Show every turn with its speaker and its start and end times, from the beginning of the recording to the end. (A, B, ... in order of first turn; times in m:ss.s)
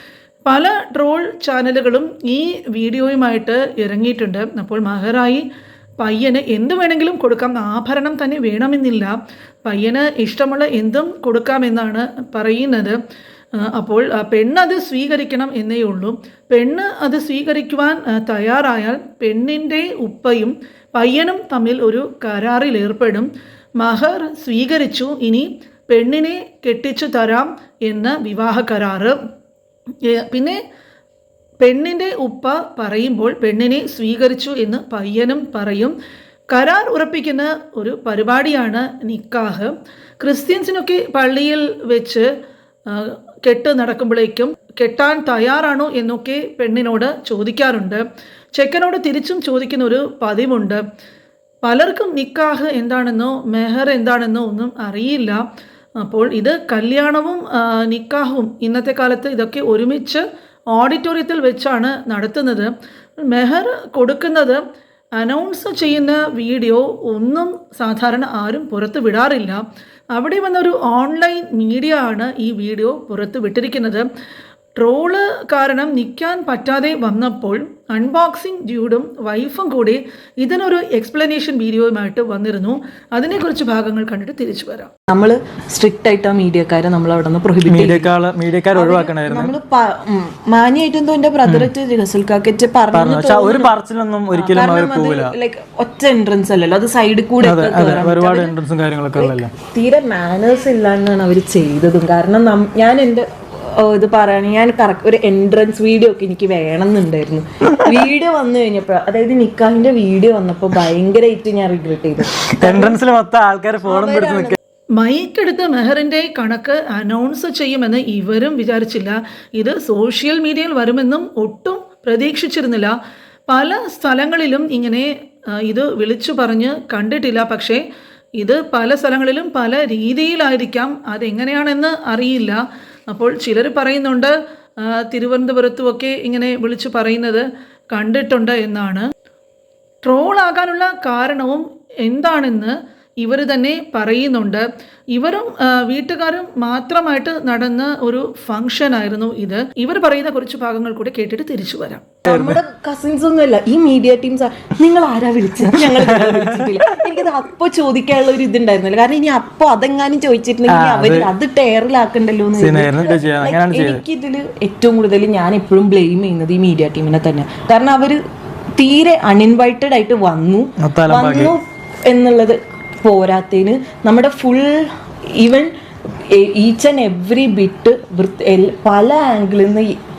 0:00.5-0:05.5 A
0:06.0-0:13.0 A
0:13.6-0:29.2 A
0:30.0-0:30.6 A
0:31.6-0:36.0 A
0:36.5-0:42.2 A
0:42.9-0:48.0 A
0:48.6-0:50.8 A
0:51.6-0:55.4 A
0:56.0-1:02.7 A
1:03.2-1:04.6 A
1:05.2-1:14.1 A
1:14.8-1:24.9 A
1:25.1-1:28.1 B
1:27.7-1:29.6 C
1:28.7-1:33.7 B
1:31.4-1:31.7 C
1:32.9-1:35.3 C
1:34.3-1:38.5 B
1:37.4-1:39.5 C
1:39.2-1:53.0 B
1:52.5-1:54.6 C
1:53.8-1:54.6 B
1:55.0-2:03.0 A
2:03.5-2:07.8 A
2:08.4-2:19.1 A
2:20.0-2:24.6 A
2:25.1-2:32.1 A
2:32.3-2:48.2 B
2:32.3-2:32.6 C
2:35.8-2:36.7 C
2:40.7-2:41.3 C
2:42.6-2:44.0 C
2:48.8-2:55.7 B
2:50.8-2:51.6 C
2:56.3-3:00.0 B